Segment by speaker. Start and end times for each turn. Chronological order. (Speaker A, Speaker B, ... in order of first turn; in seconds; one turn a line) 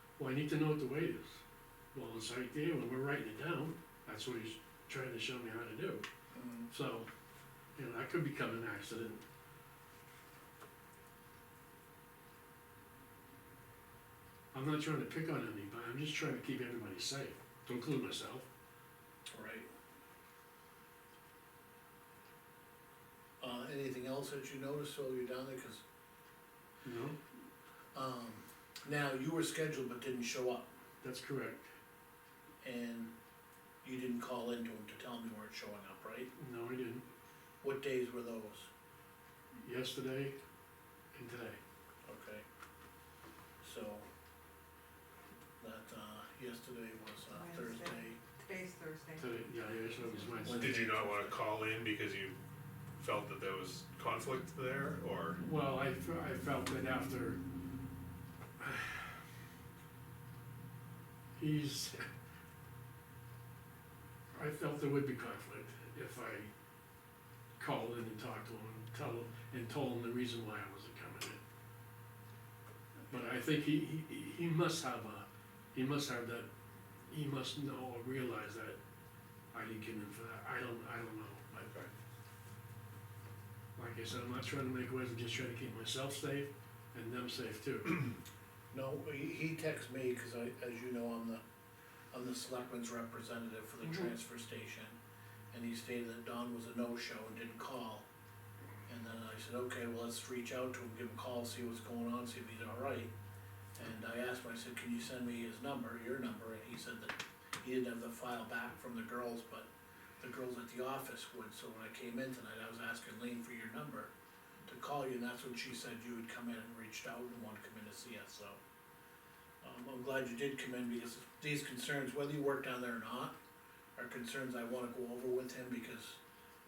Speaker A: 0.2-1.4
Speaker A: 1.9-6.1
Speaker B: 6.3-6.7
Speaker A: 6.7-7.1
Speaker A: 7.8-9.2
Speaker A: 14.5-18.5
Speaker B: 19.3-19.7
Speaker B: 23.4-25.8
Speaker A: 26.9-27.2
Speaker B: 27.9-30.7
Speaker A: 31.0-31.7
Speaker B: 32.6-33.1
Speaker B: 33.8-36.3
Speaker A: 36.4-37.1
Speaker B: 37.6-38.7
Speaker A: 39.5-40.4
Speaker A: 41.1-41.6
Speaker B: 42.1-42.4
Speaker B: 43.6-44.1
Speaker B: 45.6-48.2
Speaker C: 47.3-50.5
Speaker A: 49.2-50.9
Speaker B: 50.4-51.4
Speaker D: 50.5-52.4
Speaker D: 53.0-55.4
Speaker A: 55.4-57.4
Speaker A: 58.6-59.1
Speaker A: 61.4-62.1
Speaker A: 64.3-66.5
Speaker A: 67.6-71.4
Speaker A: 73.1-76.5
Speaker A: 77.1-78.8
Speaker A: 79.5-81.7
Speaker D: 81.6-81.9
Speaker A: 83.8-88.2
Speaker B: 88.7-91.4
Speaker B: 92.1-95.0
Speaker A: 93.8-94.1
Speaker B: 95.5-98.1
Speaker B: 98.9-103.1
Speaker B: 103.8-109.7
Speaker B: 110.2-114.1
Speaker B: 114.7-118.6
Speaker B: 119.6-123.4
Speaker B: 124.0-126.2